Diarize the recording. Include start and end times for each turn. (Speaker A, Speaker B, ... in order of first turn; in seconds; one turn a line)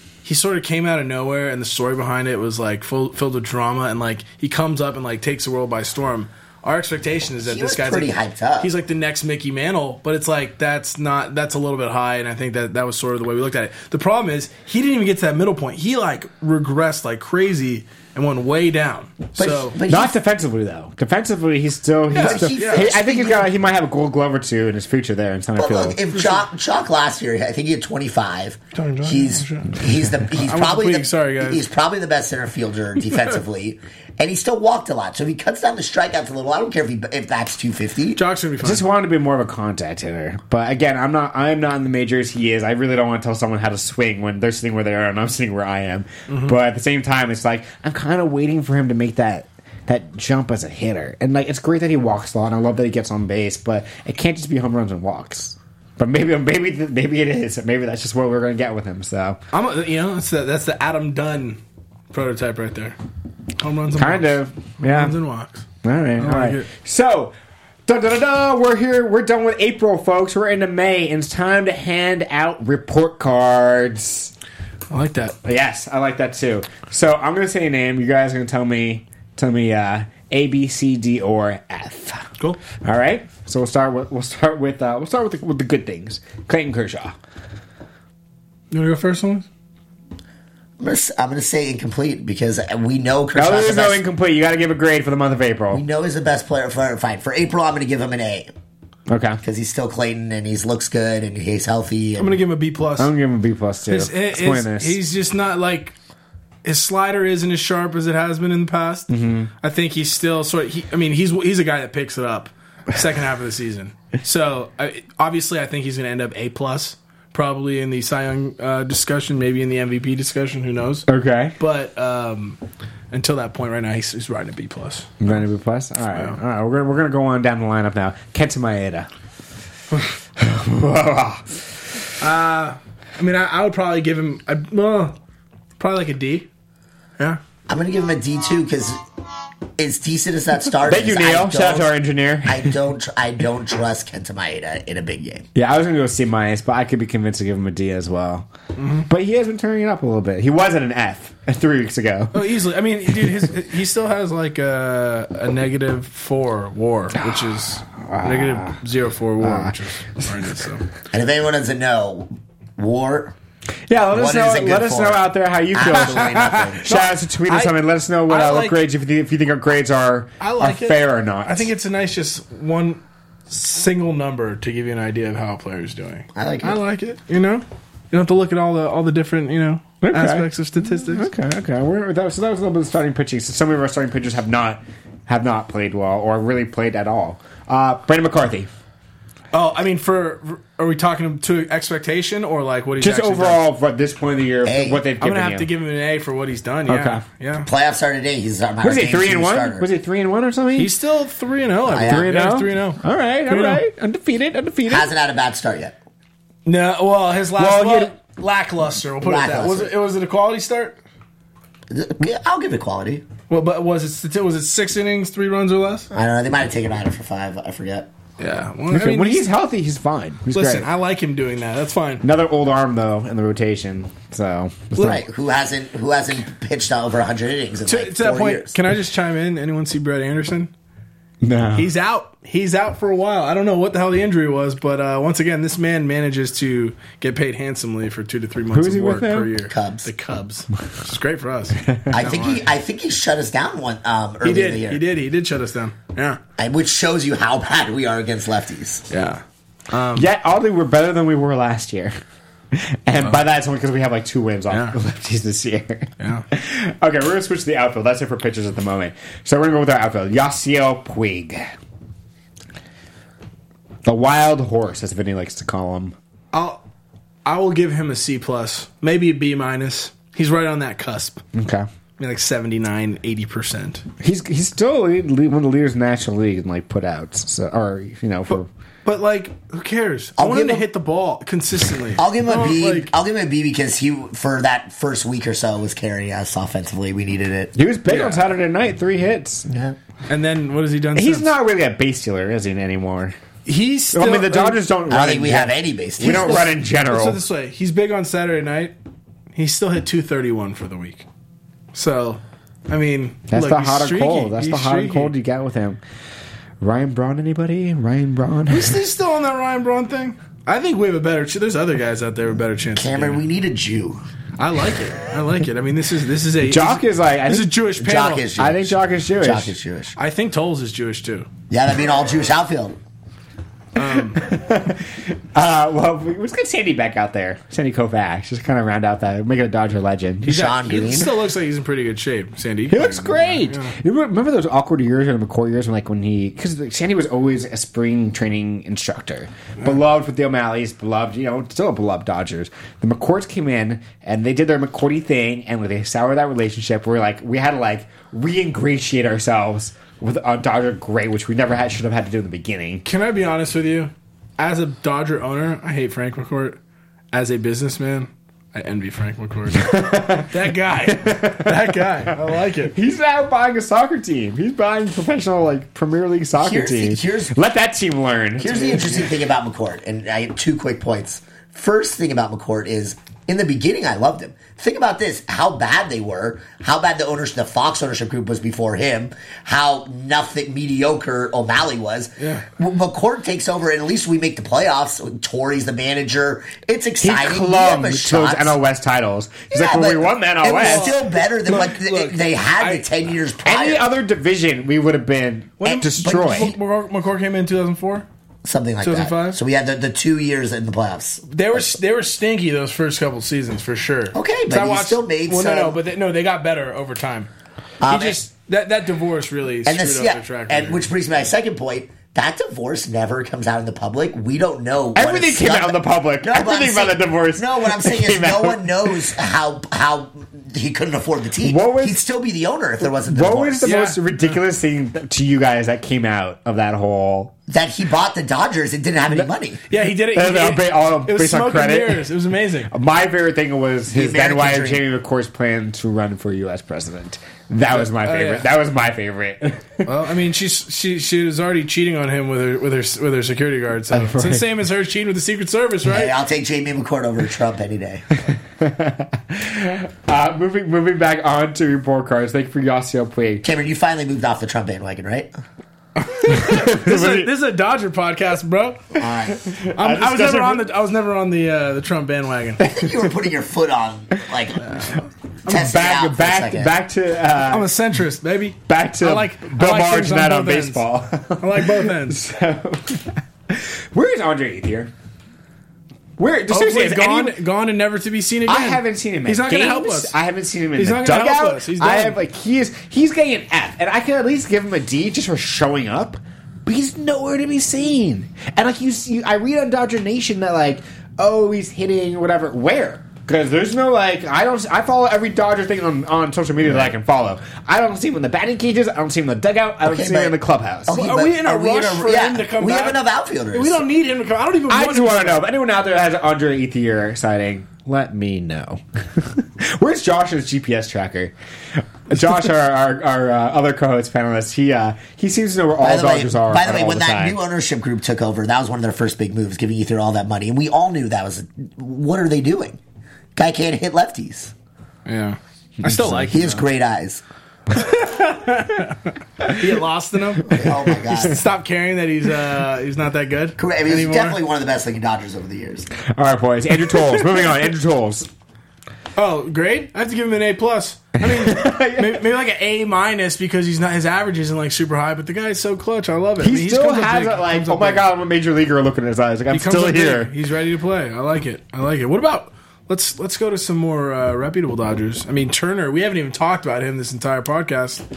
Speaker A: 0.2-19.8
Speaker B: 7.4-8.7
Speaker B: 19.4-20.1
Speaker C: 19.9-26.0
Speaker A: 22.1-22.9
Speaker B: 22.1-23.5
Speaker B: 25.6-38.2
Speaker A: 26.1-26.4
Speaker A: 28.7-29.8
Speaker A: 30.3-31.6
Speaker A: 38.1-38.8
Speaker C: 38.6-59.4
Speaker A: 46.3-46.5
Speaker A: 59.5-61.6
Speaker A: 62.1-63.0
Speaker A: 63.6-65.6
Speaker C: 64.0-65.2
Speaker C: 65.8-67.3
Speaker A: 66.2-66.7
Speaker C: 67.8-74.3
Speaker A: 74.9-75.3
Speaker C: 75.4-87.2
Speaker A: 88.7-89.5
Speaker B: 90.8-94.0
Speaker C: 93.3-95.8
Speaker B: 95.7-98.5
Speaker C: 99.1-99.4
Speaker B: 99.4-102.4
Speaker A: 102.2-103.1
Speaker C: 103.0-105.0
Speaker A: 103.9-105.9
Speaker A: 106.6-109.1
Speaker C: 109.1-109.5
Speaker A: 109.6-121.0
Speaker C: 121.1-121.5
Speaker A: 121.6-122.6
Speaker A: 123.1-125.3
Speaker C: 125.2-129.1
Speaker C: 130.3-131.6
Speaker A: 132.2-135.1
Speaker A: 135.8-136.5
Speaker B: 137.7-139.0
Speaker B: 139.8-141.9
Speaker C: 140.8-142.8
Speaker B: 142.4-145.4
Speaker C: 145.5-148.5
Speaker A: 148.8-149.1
Speaker C: 149.1-152.4
Speaker A: 152.3-160.8
Speaker C: 157.9-158.8
Speaker C: 159.4-160.2
Speaker B: 161.1-163.3
Speaker C: 163.9-171.7
Speaker B: 164.1-166.9
Speaker A: 166.8-167.7
Speaker A: 168.3-168.8
Speaker A: 170.4-181.3
Speaker B: 176.3-176.8
Speaker C: 180.0-188.7
Speaker A: 189.5-193.6
Speaker C: 193.0-195.7
Speaker B: 194.6-195.0
Speaker A: 195.2-197.7
Speaker C: 196.9-197.2
Speaker B: 197.7-199.9
Speaker C: 198.8-200.9
Speaker A: 200.8-203.8
Speaker B: 201.8-202.3
Speaker C: 202.1-205.1
Speaker B: 204.9-205.9
Speaker A: 206.6-211.0
Speaker C: 207.6-208.1
Speaker B: 209.2-209.9
Speaker B: 211.9-213.2
Speaker A: 213.5-216.1
Speaker B: 216.1-218.1
Speaker A: 218.4-219.5
Speaker C: 218.9-220.9
Speaker A: 220.5-222.2
Speaker C: 222.2-225.2
Speaker B: 225.0-228.7
Speaker A: 227.8-230.7
Speaker C: 231.4-231.9
Speaker A: 231.8-242.7
Speaker C: 238.7-239.5
Speaker B: 239.7-240.1
Speaker B: 242.1-245.0
Speaker A: 244.4-246.4
Speaker B: 246.6-249.0
Speaker A: 249.1-250.3
Speaker C: 250.1-252.1
Speaker C: 252.7-261.7
Speaker A: 254.7-254.9
Speaker A: 256.2-256.4
Speaker C: 264.0-266.1
Speaker A: 266.5-266.8
Speaker A: 267.4-271.4
Speaker C: 271.5-271.9
Speaker A: 272.2-274.0
Speaker C: 274.2-278.7
Speaker A: 278.5-283.1
Speaker B: 280.4-280.9
Speaker B: 282.2-287.7
Speaker C: 287.7-289.7
Speaker A: 288.1-288.5
Speaker B: 289.7-290.0
Speaker A: 290.3-291.5
Speaker C: 291.1-293.4
Speaker A: 293.6-294.8
Speaker C: 294.1-297.4
Speaker B: 295.1-296.7
Speaker A: 296.2-298.9
Speaker A: 299.5-301.2
Speaker A: 301.9-305.3
Speaker C: 303.5-306.0
Speaker C: 306.8-309.0
Speaker A: 308.7-313.4
Speaker B: 312.9-314.2
Speaker A: 314.6-318.4
Speaker C: 316.7-317.7
Speaker B: 318.0-320.1
Speaker C: 318.6-319.7
Speaker A: 320.2-321.5
Speaker B: 321.7-322.9
Speaker A: 323.9-324.4
Speaker C: 324.3-330.6
Speaker B: 330.4-331.3
Speaker A: 330.4-333.9
Speaker C: 332.9-353.0
Speaker A: 353.0-356.8
Speaker A: 357.3-362.9
Speaker C: 359.8-360.5
Speaker C: 361.1-362.4
Speaker C: 362.9-369.3
Speaker B: 366.6-367.6
Speaker B: 368.6-388.7
Speaker A: 382.4-382.6
Speaker C: 387.2-391.1
Speaker B: 389.7-394.1
Speaker A: 390.6-393.1
Speaker C: 393.6-396.7
Speaker A: 395.8-398.2
Speaker B: 395.9-396.7
Speaker B: 398.6-402.0
Speaker A: 399.0-399.6
Speaker A: 401.5-407.5
Speaker B: 404.3-406.0
Speaker B: 408.0-408.4
Speaker A: 408.1-411.0
Speaker B: 409.8-424.0
Speaker C: 415.1-418.8
Speaker C: 421.6-422.2
Speaker C: 423.0-427.5
Speaker A: 423.8-424.5
Speaker B: 427.7-429.8
Speaker A: 429.9-432.9
Speaker C: 430.3-432.2
Speaker C: 432.9-439.9
Speaker B: 434.1-435.0
Speaker A: 437.9-438.7
Speaker A: 440.0-446.3
Speaker C: 444.1-444.6
Speaker B: 446.1-448.2
Speaker C: 448.8-453.6
Speaker B: 453.6-455.5
Speaker A: 456.2-459.2
Speaker C: 456.4-457.5
Speaker B: 459.2-459.6
Speaker C: 459.5-460.9
Speaker A: 459.9-462.8
Speaker B: 462.8-464.8
Speaker A: 464.8-465.2
Speaker B: 465.7-466.9
Speaker C: 465.7-467.9
Speaker A: 467.7-471.0
Speaker C: 468.9-475.1
Speaker A: 471.6-472.4
Speaker C: 476.4-477.6
Speaker A: 476.7-480.3
Speaker C: 478.7-501.2
Speaker A: 480.9-482.4
Speaker B: 500.0-504.0
Speaker A: 501.2-503.2
Speaker A: 503.7-505.6
Speaker C: 504.9-517.6
Speaker B: 516.0-523.0
Speaker B: 523.5-524.7
Speaker A: 525.2-526.8
Speaker C: 526.0-526.5
Speaker B: 526.5-527.4
Speaker A: 527.9-534.6
Speaker B: 530.7-531.6
Speaker B: 533.8-536.1
Speaker C: 536.3-538.5
Speaker A: 539.4-548.2
Speaker C: 541.4-542.4
Speaker C: 546.6-550.5
Speaker A: 549.7-558.2